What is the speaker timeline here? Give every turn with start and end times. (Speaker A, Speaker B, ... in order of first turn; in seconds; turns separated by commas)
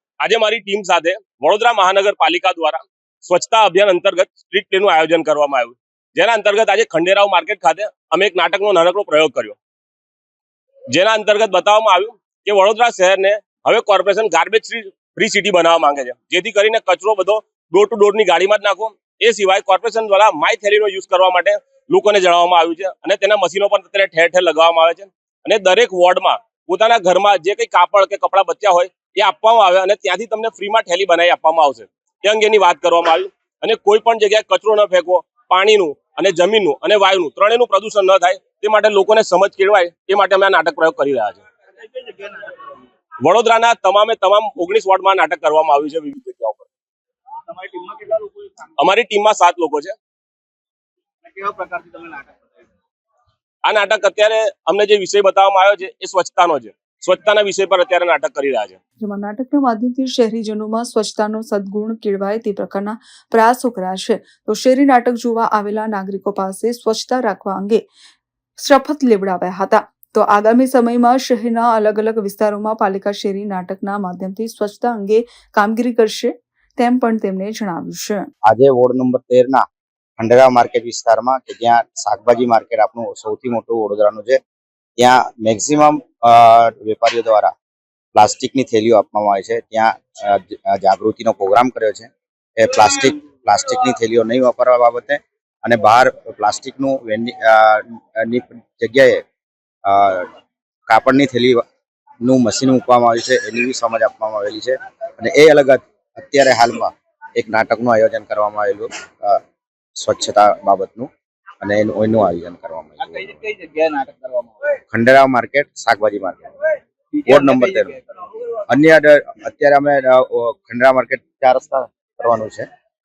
Speaker A: 0.2-9.6, Speaker A: 10.9-41.4, Speaker A: 43.2-46.7, Speaker B: 47.5-48.3, Speaker A: 48.8-49.9, Speaker B: 51.2-52.5, Speaker A: 53.6-58.8, Speaker C: 59.0-67.8, Speaker C: 68.6-78.3, Speaker D: 78.5-79.6, Speaker D: 80.2-84.4, Speaker D: 85.0-87.5, Speaker D: 88.1-99.2, Speaker D: 99.8-100.3, Speaker D: 100.9-101.6, Speaker D: 102.2-109.4, Speaker D: 110.0-111.1, Speaker D: 111.6-113.4, Speaker B: 113.3-114.5, Speaker D: 114.9-116.5, Speaker B: 117.2-118.0, Speaker D: 117.2-118.0, Speaker D: 118.7-122.7